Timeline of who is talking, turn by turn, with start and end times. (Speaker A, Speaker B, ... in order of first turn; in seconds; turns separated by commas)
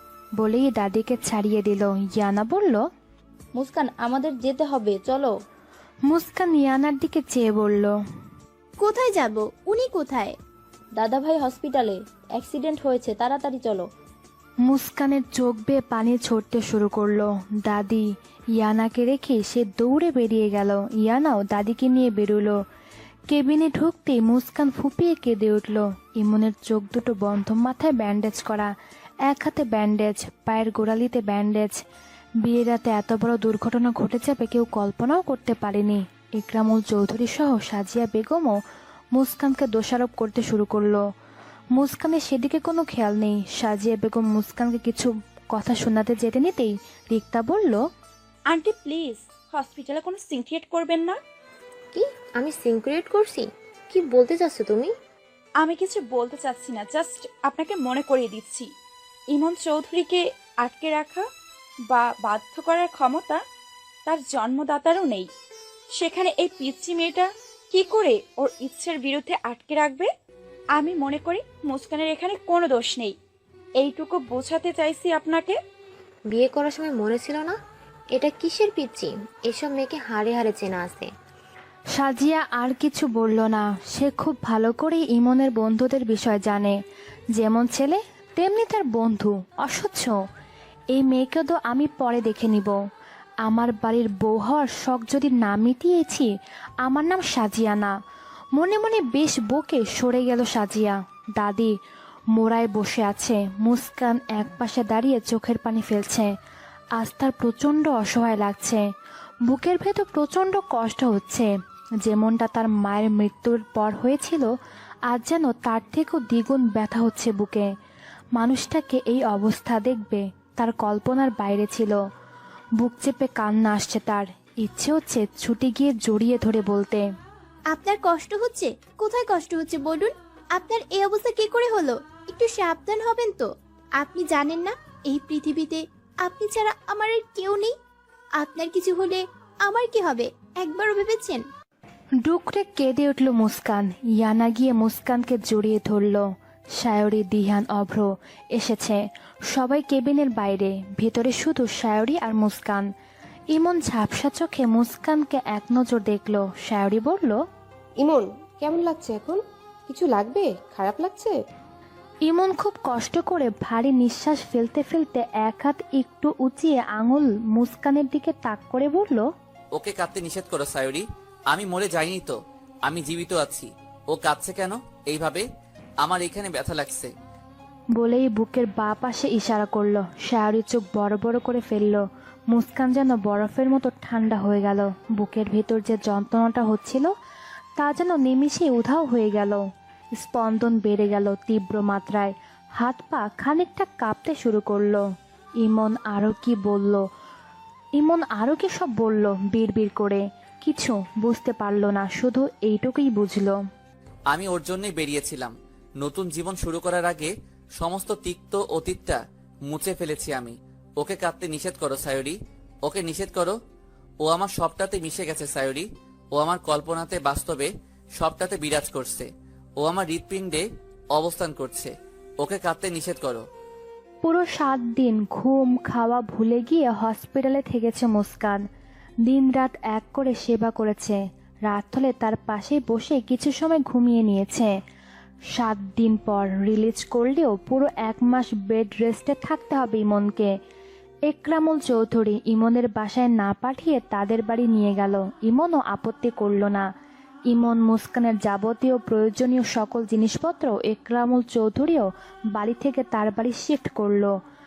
Speaker A: 0.4-2.8, Speaker B: 3.5-5.3, Speaker A: 6.1-8.0, Speaker C: 8.8-10.3, Speaker B: 10.9-13.9, Speaker A: 14.6-22.6, Speaker A: 23.3-28.7, Speaker A: 29.3-31.8, Speaker A: 32.4-38.6, Speaker A: 39.1-41.0, Speaker A: 41.8-47.8, Speaker D: 48.5-51.2, Speaker E: 51.9-54.9, Speaker D: 55.6-58.7, Speaker D: 59.3-61.2, Speaker D: 61.9-63.4, Speaker D: 64.1-65.3, Speaker D: 65.9-70.1, Speaker D: 70.8-73.2, Speaker D: 73.8-75.6, Speaker E: 76.3-77.6, Speaker E: 78.1-81.1, Speaker A: 82.0-86.8, Speaker A: 87.3-90.1, Speaker A: 90.9-92.8, Speaker A: 93.4-96.3, Speaker A: 96.8-98.0, Speaker A: 98.5-101.7, Speaker A: 102.3-106.3, Speaker A: 107.0-108.8, Speaker A: 109.5-111.5, Speaker A: 112.0-114.5, Speaker A: 115.1-117.7, Speaker A: 118.4-122.0, Speaker A: 122.8-127.0, Speaker C: 127.7-133.4, Speaker C: 134.0-137.7, Speaker C: 138.4-141.4, Speaker A: 142.2-146.3, Speaker A: 146.8-149.0, Speaker A: 149.5-152.9, Speaker A: 153.5-157.4, Speaker F: 158.0-161.4, Speaker A: 162.3-169.3, Speaker G: 169.7-172.3, Speaker G: 172.9-175.4, Speaker G: 176.0-177.1, Speaker A: 178.0-187.1, Speaker A: 187.8-189.6, Speaker A: 190.2-195.0, Speaker A: 195.6-197.0, Speaker A: 198.0-203.6, Speaker G: 204.3-213.6, Speaker G: 214.2-219.3, Speaker G: 219.8-223.4, Speaker A: 224.2-228.6, Speaker A: 229.3-234.7, Speaker A: 235.5-240.5, Speaker A: 241.3-246.9, Speaker A: 247.5-254.3